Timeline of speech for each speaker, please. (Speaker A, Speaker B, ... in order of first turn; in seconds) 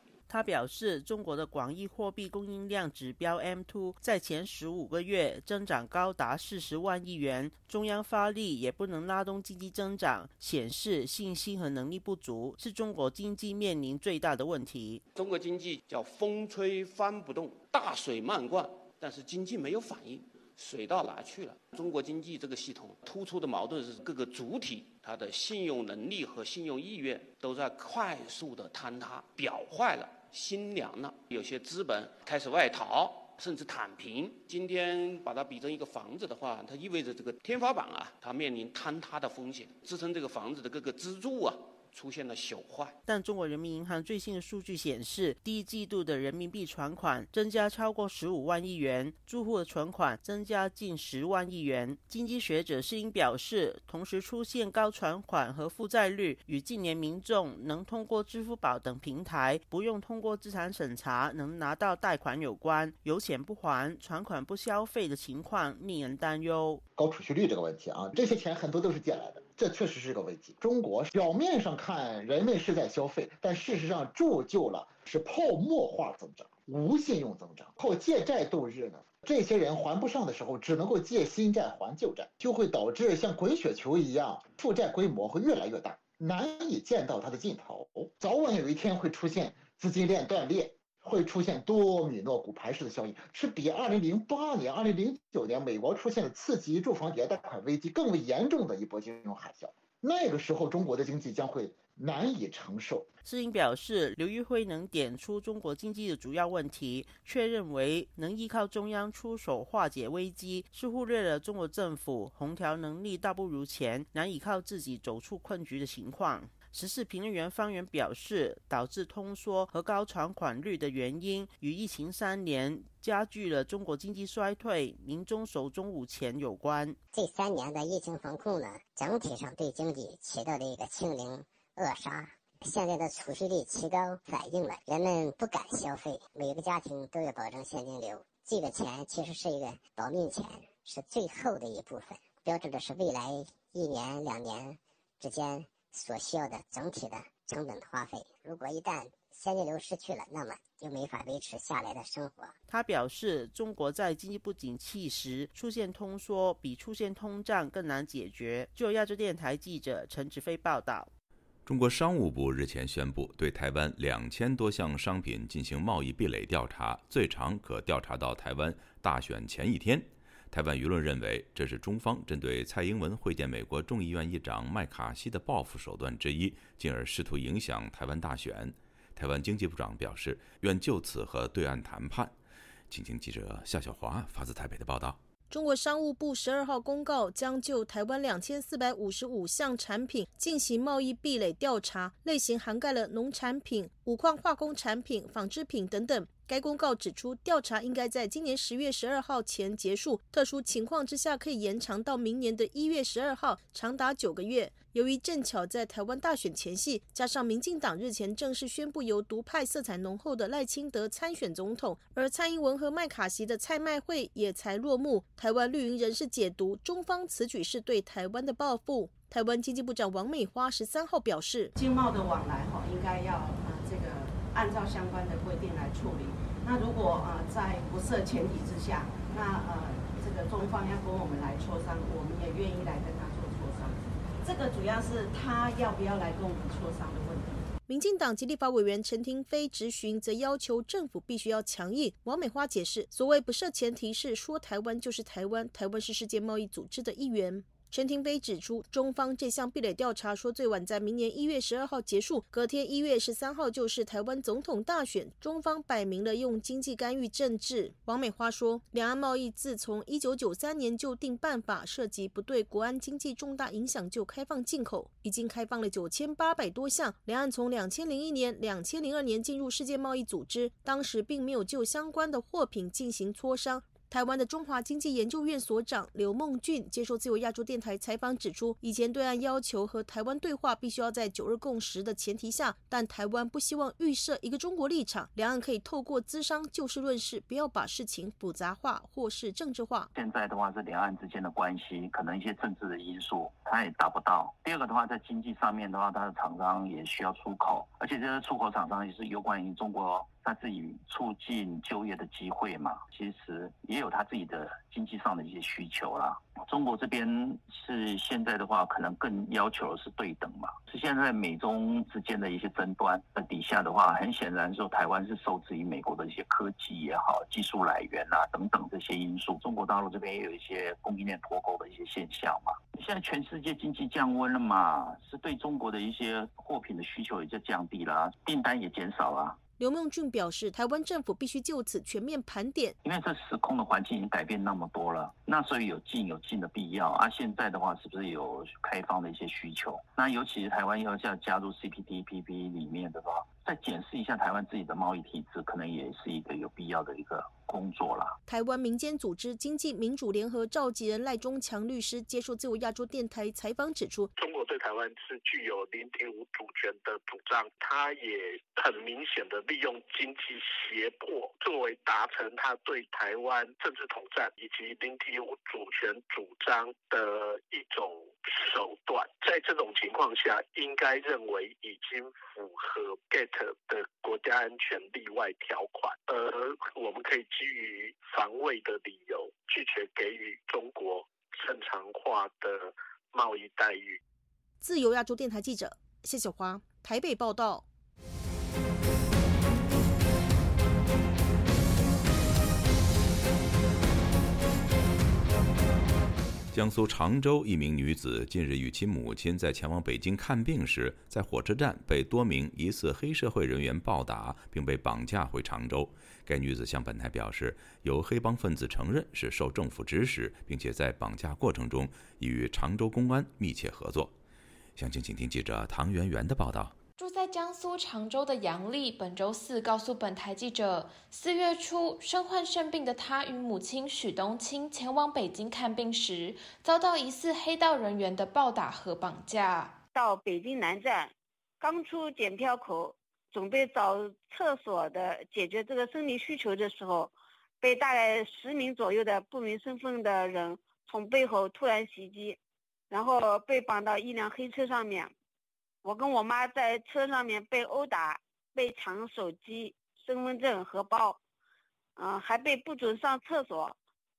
Speaker A: 0.3-15.0, 43.1-66.8, 103.2-127.0, 152.7-161.1
Speaker B: 15.1-42.9
Speaker C: 67.0-103.1
Speaker D: 127.1-152.5
Speaker E: 161.7-182.3, 182.9-185.2, 396.7-414.3, 414.9-416.9
Speaker F: 185.5-221.7, 237.9-290.1, 329.8-332.9, 348.5-354.3, 384.8-387.8
Speaker G: 221.8-237.7
Speaker H: 290.1-329.6, 333.0-348.4
Speaker I: 354.4-384.2
Speaker J: 417.2-430.0
Speaker K: 430.1-442.6, 443.1-445.3, 446.0-451.4, 452.2-453.9